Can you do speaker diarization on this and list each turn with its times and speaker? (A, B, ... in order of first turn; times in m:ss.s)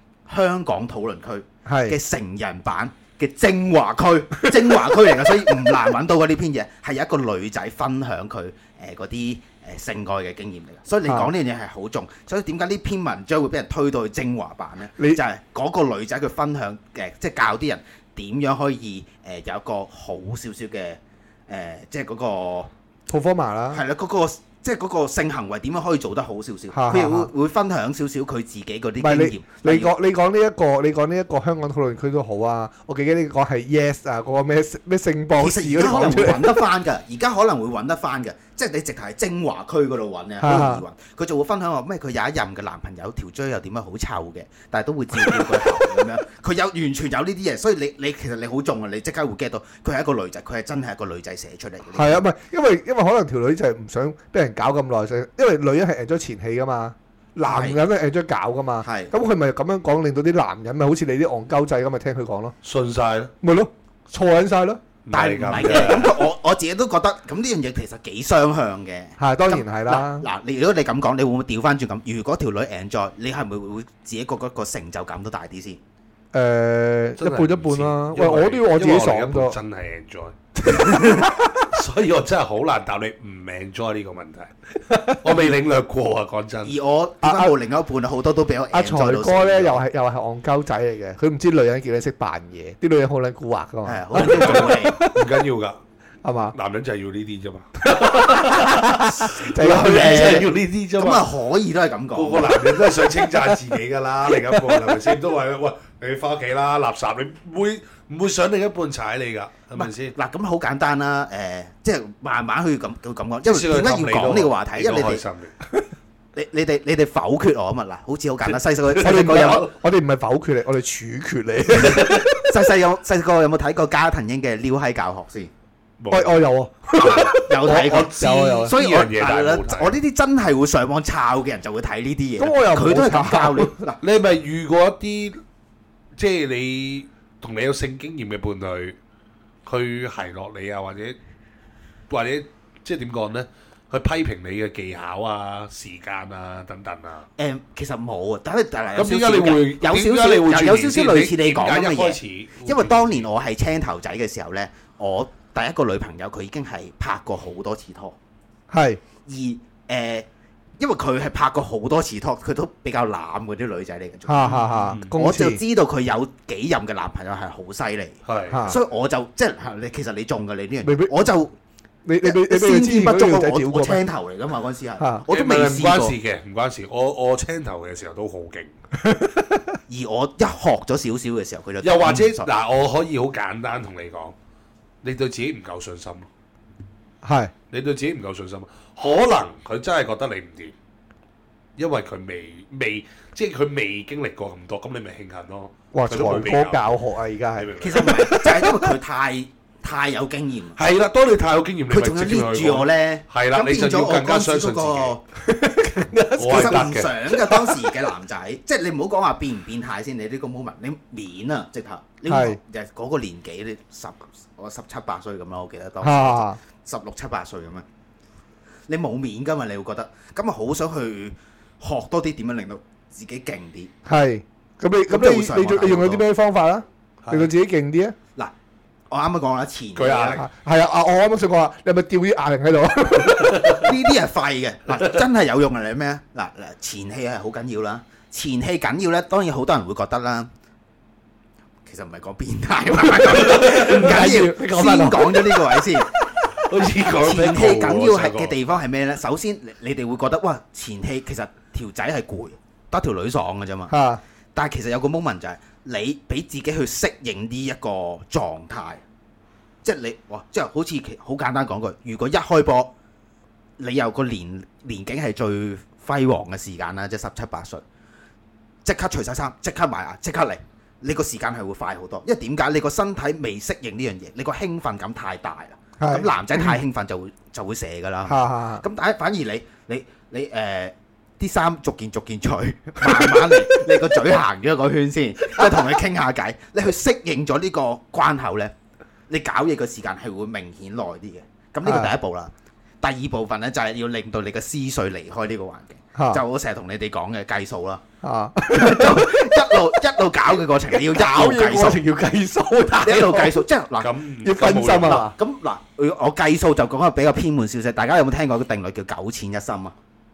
0:00.3-0:22.7 A
0:01.7-0:02.0 B
0:04.4-0:05.1 B
0:11.1-0:11.3 B
0:23.1-0:23.8 B
0:23.7-0:29.9 A
0:26.7-0:27.3 B
0:29.0-0:36.6 B
0:35.4-0:52.2 A
0:40.4-0:40.8 B
0:45.2-0:46.0 B
0:51.9-1:02.6 B
0:57.5-0:57.8 A
0:58.8-0:59.1 A
1:02.6-1:03.3 C
1:03.4-1:04.8 B
1:05.1-1:06.2 C
1:05.1-1:15.8 A
1:09.2-1:10.3 B
1:16.3-1:19.6 B
1:17.2-1:26.8 C
1:20.6-1:21.7 B
1:24.9-1:25.4 B
1:26.6-1:29.8 A
1:27.2-1:27.5 B
1:28.7-1:35.4 B
1:33.8-1:35.0 A
1:34.2-1:35.8 C
1:36.2-1:36.6 B
1:36.5-1:41.3 C
1:37.8-1:40.5 B
1:39.7-1:42.6 A
1:42.1-1:50.2 C
1:42.5-1:43.6 B
1:44.3-1:45.2 B
1:49.8-1:55.2 A
1:53.4-1:55.5 C
1:56.4-1:59.7 A
1:58.5-1:59.7 C
1:59.0-2:02.5 B
2:01.8-2:05.5 A
2:06.0-2:06.4 C
2:06.1-2:08.8 B
2:06.9-2:09.9 C
2:07.0-2:14.0 A
2:12.4-2:13.8 B
2:14.0-2:15.4 C
2:16.2-2:19.0 C
2:19.7-2:21.2 C
2:22.1-2:27.3 C
2:27.4-2:38.2 A
2:29.0-2:33.3 C
2:38.7-2:39.0 B
2:39.3-2:40.3 A
2:40.8-2:51.5 A
2:44.3-2:45.6 B
2:48.3-2:48.7 C
2:48.5-2:48.8 B
2:50.8-2:51.3 B
2:52.0-2:54.0 B
2:52.2-2:56.2 A
2:55.3-2:58.7 C
2:59.0-2:59.8 B
2:59.9-3:02.5 A
3:01.8-3:04.4 C
3:05.0-3:06.3 C
3:07.2-3:07.5 B
3:07.7-3:10.7 C
3:11.8-3:17.0 C
3:15.9-3:18.7 B
3:17.6-3:18.5 C
3:17.8-3:20.8 A
3:20.8-3:25.2 C
3:21.9-3:25.2 A
3:25.4-3:28.0 B
3:26.4-3:27.1 C
3:26.4-3:37.9 A
3:32.3-3:32.6 B
3:36.0-3:36.6 B
3:38.9-3:43.9 A
3:44.1-3:48.2 B
3:45.1-3:46.2 A
3:47.2-3:47.5 C
3:49.1-3:50.4 A
3:50.0-3:50.4 C
3:50.4-3:53.8 B
3:53.3-3:53.9 C
3:53.7-4:00.5 A
4:01.9-4:06.1 A
4:03.0-4:06.0 B
4:03.5-4:04.1 C
4:06.6-4:08.6 C
4:07.1-4:13.9 A
4:13.9-4:14.2 B
4:14.6-4:19.0 A
4:19.8-4:22.9 A
4:23.8-4:27.8 A
4:28.8-4:48.7 A
4:36.0-4:36.8 B
4:38.3-4:38.8 B
4:43.0-4:43.9 B
4:45.6-4:45.8 B
4:49.3-4:58.0 A
4:51.8-4:52.1 B
4:56.2-4:56.4 B
4:58.2-5:00.0 B
4:58.7-5:02.0 A
5:00.9-5:03.6 B
5:02.9-5:04.1 A
5:04.0-5:05.3 C
5:04.4-5:05.4 B
5:04.9-5:10.0 A